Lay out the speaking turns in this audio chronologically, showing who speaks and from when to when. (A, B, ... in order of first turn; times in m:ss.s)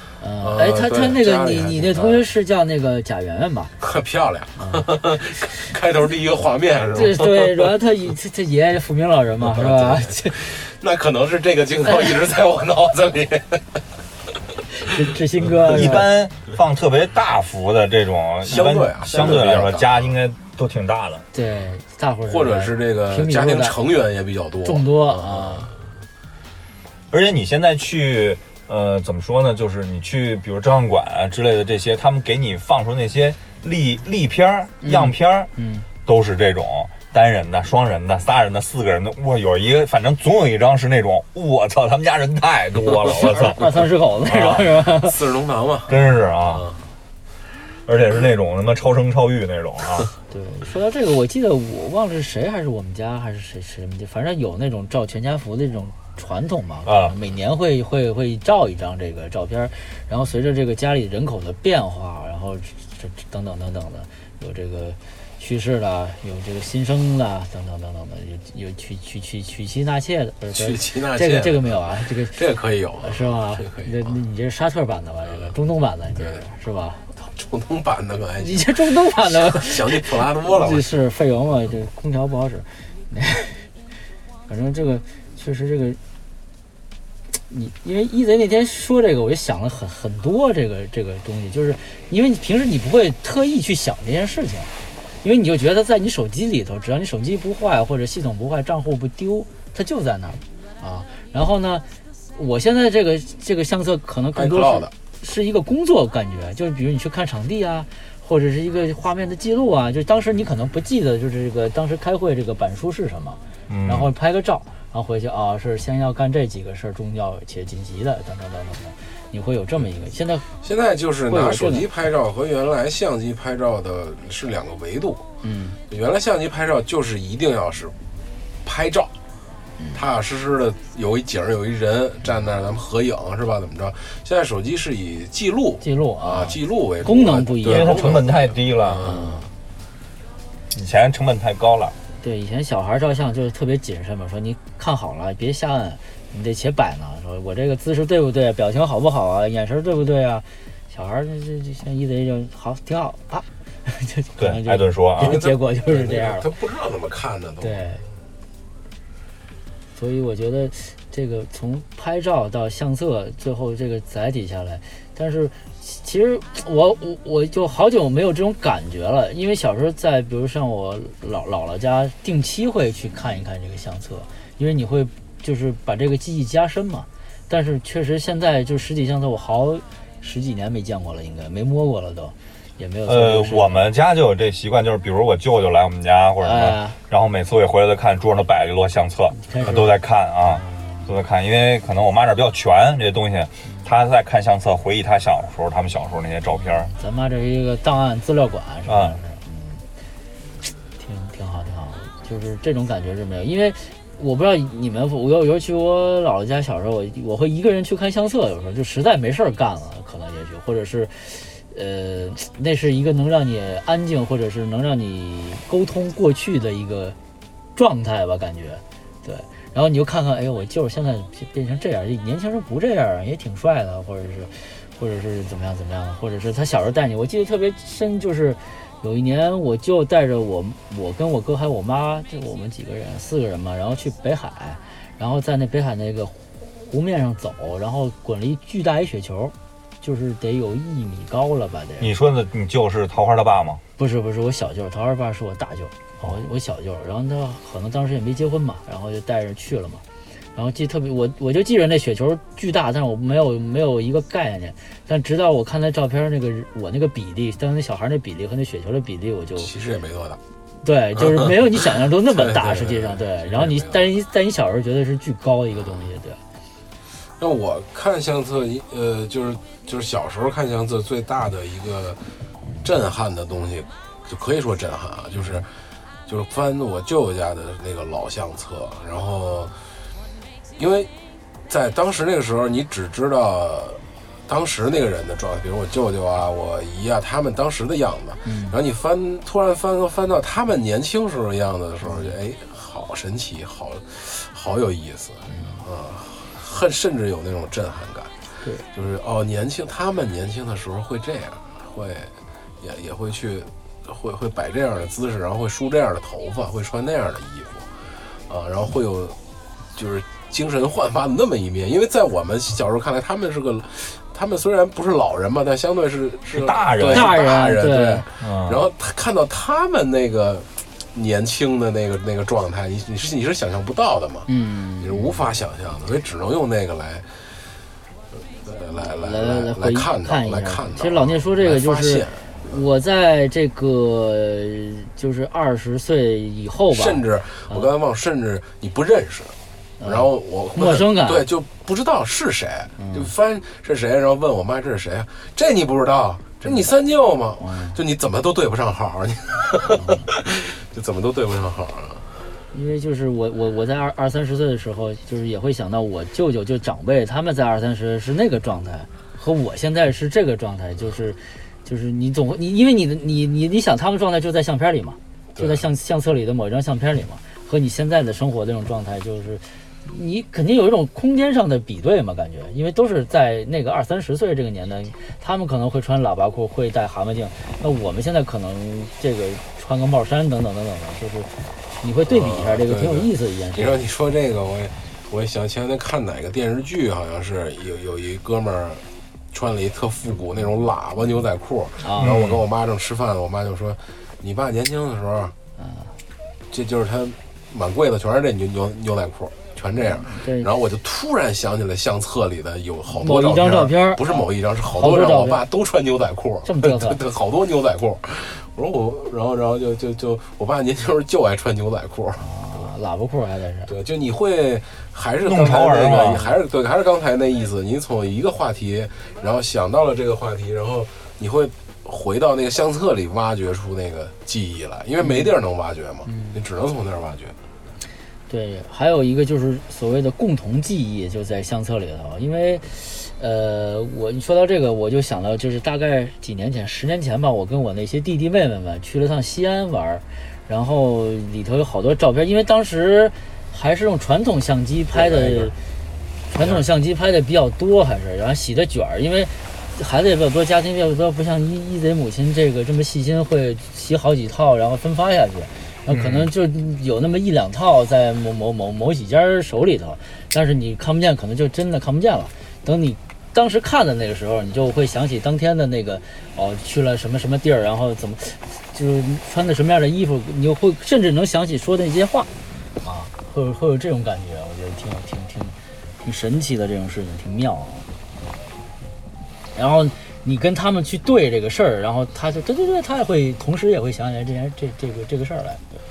0:00.2-0:03.7 A
0:00.4-0:02.3 B
0:03.8-0:07.7 B
0:04.6-0:04.9 A
0:06.9-0:10.4 A
0:09.4-0:13.8 B
0:14.8-0:16.1 A
0:15.6-0:21.2 C
0:18.4-0:20.1 B
0:21.3-0:23.8 A
0:22.3-0:25.8 B
0:24.6-0:25.7 A
0:27.1-0:35.5 C
0:34.8-0:35.9 A
0:36.1-0:43.7 C
0:42.9-0:45.2 A
0:44.3-0:44.6 C
0:44.4-0:46.8 B
0:45.9-0:46.7 C
0:47.9-0:50.1 C
0:50.3-1:12.4 A
0:56.9-0:57.2 C
1:10.5-1:14.2 B
1:13.0-1:17.0 A
1:15.3-1:15.6 B
1:16.2-1:16.4 B
1:17.2-1:20.9 B
1:18.4-1:23.7 A
1:24.5-1:26.0 A
1:27.5-1:34.7 A
1:35.2-2:00.5 A
1:44.4-1:44.9 B
1:53.7-1:54.1 C
2:00.6-2:05.2 B
2:01.3-2:01.9 A
2:05.4-2:05.8 A
2:05.9-2:07.9 B
2:08.6-2:09.1 B
2:09.8-2:10.0 A
2:09.9-2:19.5 B
2:15.8-2:18.1 A
2:17.7-2:19.1 C
2:19.0-2:19.5 A
2:20.7-2:22.0 C
2:22.2-2:36.5 A
2:34.4-2:35.4 C
2:35.2-2:37.9 B
2:37.6-2:38.0 A
2:40.0-3:03.9 A
3:03.1-3:16.9 C
3:06.4-3:07.0 A
3:09.4-3:11.1 A
3:16.5-3:19.8 A
3:18.9-3:19.2 C
3:21.0-3:37.2 A
3:37.8-4:02.1 A
4:02.0-4:03.8 C
4:04.0-4:10.0 A
4:10.6-4:19.7 A
4:19.6-4:20.4 B
4:20.8-4:26.4 A
4:21.2-4:24.1 B
4:27.4-4:32.2 B
4:32.8-4:35.7 B
4:36.3-4:39.7 B
4:40.8-4:41.1 B
4:41.7-4:58.3 B
4:48.4-4:48.8 A
4:52.0-4:52.3 A
4:55.5-4:55.8 A
4:58.9-5:07.9 B
5:08.5-5:09.4 B
5:10.0-5:24.5 B
5:16.5-5:17.3 C
5:17.0-5:18.2 A
5:18.4-5:18.8 C
5:24.5-5:25.4 A
5:25.0-5:27.3 B
5:28.6-5:32.7 B
5:29.0-5:37.9 A
5:36.9-5:52.3 B
5:40.0-5:41.5 A
5:43.0-5:43.3 A
5:47.6-5:48.0 A
5:49.9-5:50.3 A
5:52.7-6:24.0 A
6:05.6-6:05.8 B
6:22.3-6:35.5 B
6:32.0-6:32.3 A
6:32.2-6:32.6 C
6:35.8-6:36.1 A
6:36.7-6:52.5 B
6:40.1-6:40.7 A
6:43.2-6:45.6 A
6:46.6-6:47.2 A
6:52.4-6:53.9 A
6:53.9-7:07.6 B
6:55.4-6:56.5 C
7:05.2-7:05.5 A
7:06.3-7:06.6 A
7:08.5-7:25.8 A
7:25.1-7:25.8 B
7:26.5-7:58.1 A
7:36.1-7:36.5 C
7:59.8-8:05.8 A